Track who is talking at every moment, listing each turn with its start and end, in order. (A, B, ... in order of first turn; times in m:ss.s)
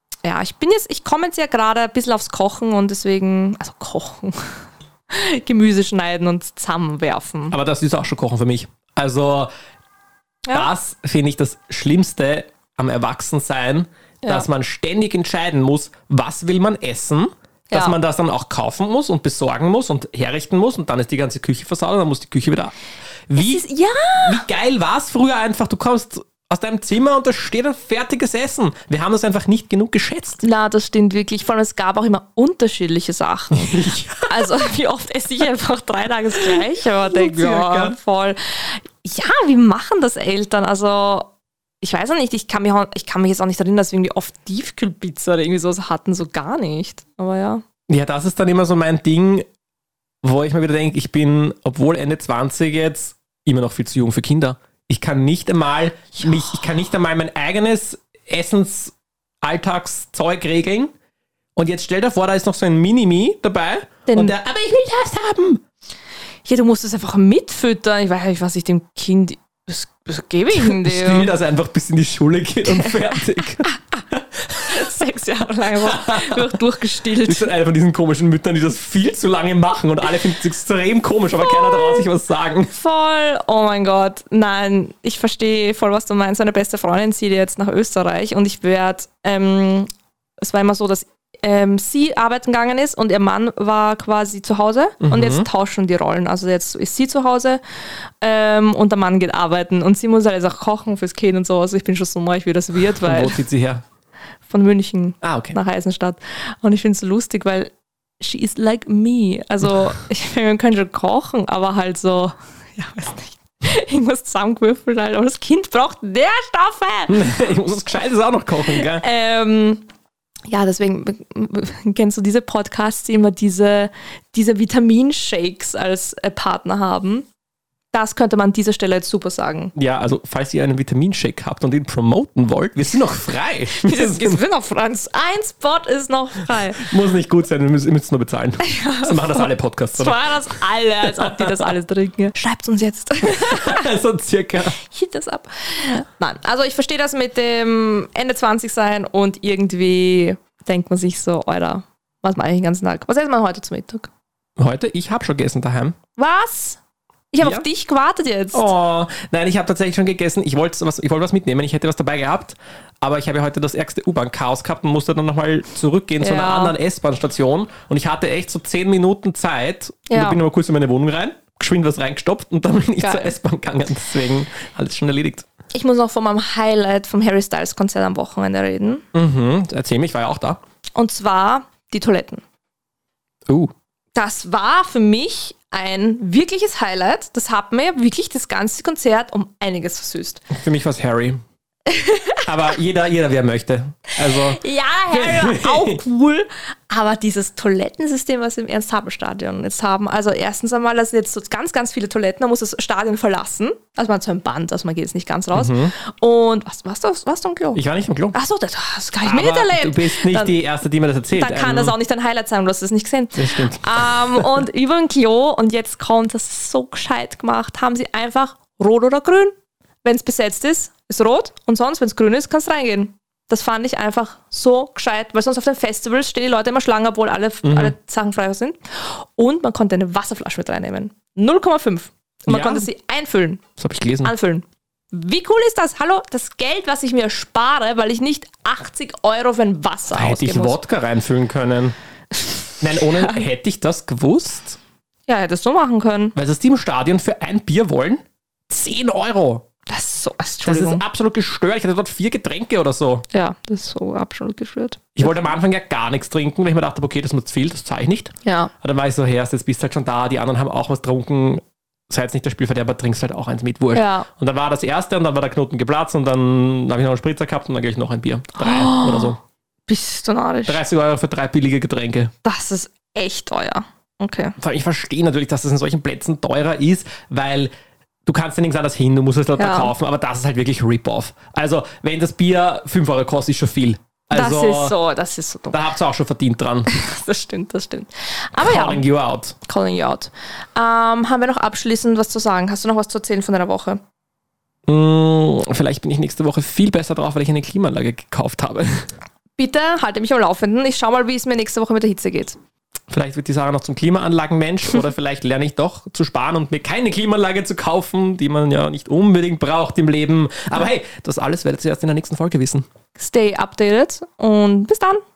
0:00.2-0:07.6 A
0:07.5-0:09.5 B
0:10.5-0:10.7 A
0:10.5-0:22.7 B
0:17.7-0:18.0 A
0:23.3-0:23.6 B
0:23.4-0:24.5 A
0:24.2-0:30.4 B
0:30.4-0:47.6 A
0:33.5-0:34.5 B
0:37.1-0:38.0 B
0:47.9-0:49.4 B
0:50.2-1:00.9 B
1:01.6-1:05.6 B
1:04.1-1:04.4 A
1:06.4-1:11.3 A
1:10.5-1:14.8 B
1:12.7-1:13.8 A
1:14.7-1:17.5 A
1:15.7-1:16.5 B
1:17.2-1:22.7 B
1:21.6-1:22.0 A
1:22.7-1:29.9 A
1:30.4-1:37.6 A
1:35.0-1:35.5 B
1:38.2-1:43.4 A
1:43.0-1:43.8 B
1:44.5-1:57.3 A
1:45.2-1:45.6 B
1:57.1-1:59.0 B
1:58.7-1:59.8 A
2:00.5-2:07.3 A
2:07.9-2:09.7 A
2:09.8-2:14.4 B
2:13.7-2:16.9 A
2:16.8-2:20.4 B
2:18.6-2:23.9 A
2:21.0-2:21.7 B
2:23.2-2:24.8 B
2:24.8-2:34.1 A
2:34.6-2:36.0 B
2:36.2-2:36.8 A
2:37.3-2:38.7 A
2:37.4-2:37.7 B
2:38.5-2:55.5 B
2:46.2-2:46.8 A
2:50.1-2:50.4 A
2:53.0-2:53.4 A
2:55.7-2:59.0 A
2:59.1-3:00.6 B
3:01.0-3:02.4 A
3:04.1-3:10.4 A
3:10.5-3:11.4 B
3:11.9-3:12.4 A
3:12.4-3:16.0 B
3:14.4-3:27.8 A
3:25.5-3:26.0 B
3:27.7-3:28.4 B
3:28.3-3:30.6 A
3:29.2-3:32.0 B
3:31.3-3:53.6 A
3:33.4-3:34.6 B
3:47.6-3:48.0 B
3:52.5-3:52.9 B
3:53.8-3:54.3 B
3:54.2-4:00.8 A
4:00.1-4:02.0 B
4:02.4-4:03.4 A
4:02.8-4:04.8 B
4:05.3-4:06.4 A
4:06.4-4:09.6 B
4:09.9-4:11.0 A
4:10.6-4:13.3 B
4:13.3-4:15.5 A
4:15.2-4:29.4 B
4:18.4-4:18.7 A
4:23.9-4:24.3 A
4:28.6-4:29.4 A
4:29.9-4:30.8 A
4:30.7-4:32.3 B
4:32.4-4:34.6 A
4:34.6-4:37.7 B
4:38.3-4:45.0 B
4:39.6-4:39.9 A
4:44.3-4:45.8 A
4:45.7-4:46.9 B
4:46.9-4:49.0 A
4:48.6-4:49.6 B
4:49.6-4:54.0 A
4:54.9-4:59.1 B
4:59.6-5:02.6 A
5:03.1-5:12.8 B
5:13.2-5:15.2 A